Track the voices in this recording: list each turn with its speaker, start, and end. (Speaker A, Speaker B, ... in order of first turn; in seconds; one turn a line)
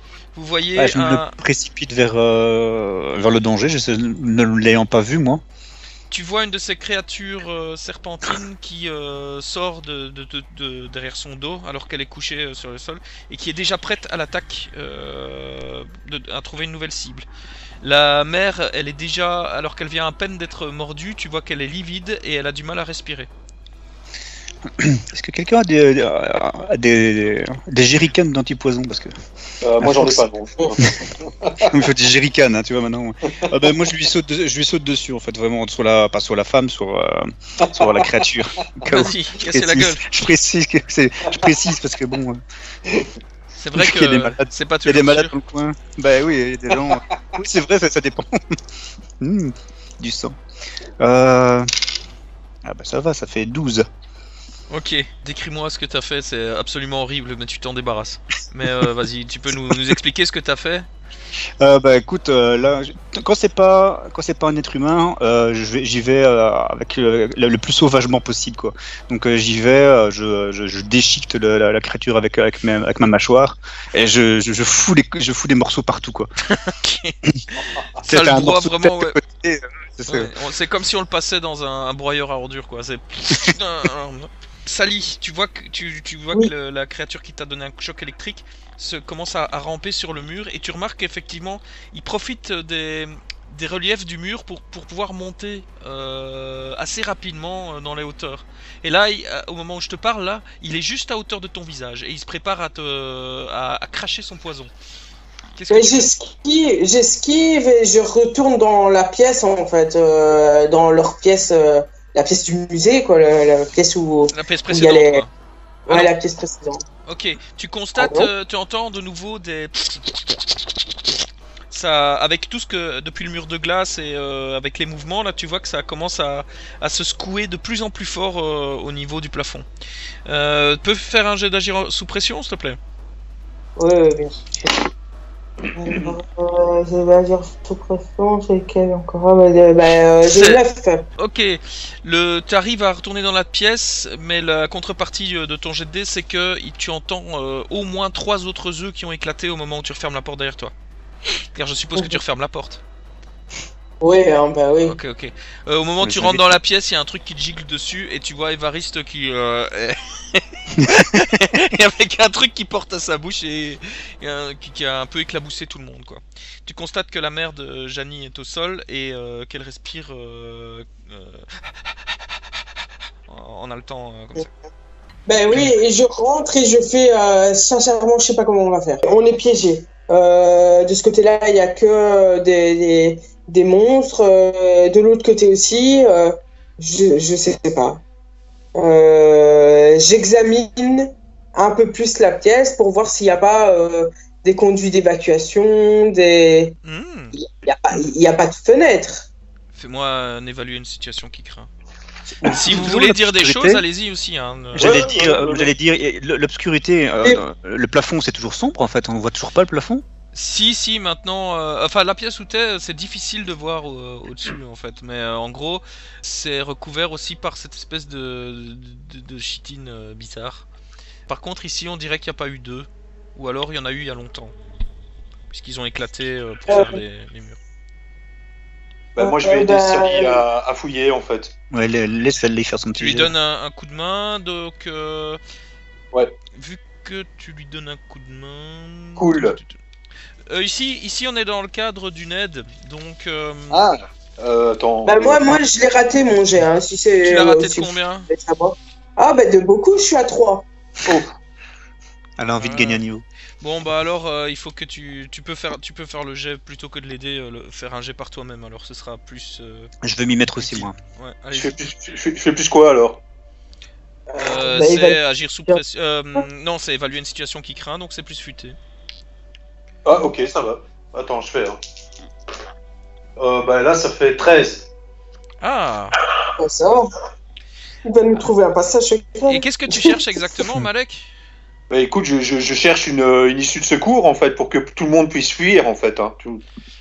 Speaker A: 0.3-1.3
Speaker B: 0.8-5.4
Speaker A: 6.1-17.3
Speaker A: 17.8-23.3
Speaker B: 24.8-29.1
Speaker C: 29.6-31.7
Speaker B: 29.8-30.2
Speaker B: 31.6-42.4
Speaker C: 37.8-38.1
Speaker A: 38.9-40.0
Speaker A: 43.6-45.3
Speaker B: 43.8-48.6
Speaker B: 49.2-50.4
Speaker B: 51.0-51.7
Speaker B: 52.6-53.9
Speaker A: 54.7-60.9
Speaker B: 61.6-76.3
Speaker A: 76.5-79.2
Speaker B: 78.1-80.3
Speaker A: 80.1-104.7
Speaker A: 105.5-106.1
Speaker D: 105.7-115.2
Speaker A: 114.3-115.3
Speaker D: 115.9-116.8
Speaker A: 117.0-120.3
Speaker D: 118.0-118.3
Speaker A: 121.7-129.7
Speaker A: 130.3-132.8
Speaker D: 133.8-134.8
Speaker D: 135.7-141.1
Speaker C: 135.9-136.1
Speaker A: 140.3-140.6
Speaker A: 141.2-150.7
Speaker A: 151.5-152.8
Speaker D: 154.0-155.0
Speaker A: 154.8-172.1
Speaker B: 156.0-156.4
Speaker B: 160.8-161.0
Speaker A: 173.3-174.5
Speaker D: 175.3-188.0
Speaker D: 188.7-196.7
Speaker A: 196.8-197.3
Speaker D: 197.3-199.3
Speaker A: 199.7-201.7
Speaker B: 202.3-203.8
Speaker A: 202.4-205.2
Speaker B: 204.7-210.0
Speaker D: 204.8-205.4
Speaker C: 205.0-205.7
Speaker A: 210.3-220.7
Speaker A: 221.3-224.5
Speaker A: 225.5-227.6
Speaker D: 226.7-227.0
Speaker C: 229.2-231.5
Speaker D: 229.2-230.4
Speaker B: 231.7-233.3
Speaker A: 232.9-235.4
Speaker A: 236.5-239.8
Speaker C: 239.2-239.6
Speaker A: 240.5-243.8
Speaker C: 243.7-245.6
Speaker D: 245.1-250.7
Speaker A: 247.2-248.3
Speaker C: 251.0-251.3
Speaker B: 252.4-253.2
Speaker A: 252.6-253.0
Speaker A: 253.6-259.9
Speaker B: 260.0-260.9
Speaker A: 260.6-261.8
Speaker C: 261.5-263.2
Speaker D: 264.3-265.8
Speaker A: 264.4-268.8
Speaker C: 270.0-271.8
Speaker C: 273.4-274.9
Speaker A: 275.6-276.1
Speaker D: 276.6-277.1
Speaker D: 278.0-280.1
Speaker A: 279.5-281.3
Speaker C: 281.9-286.6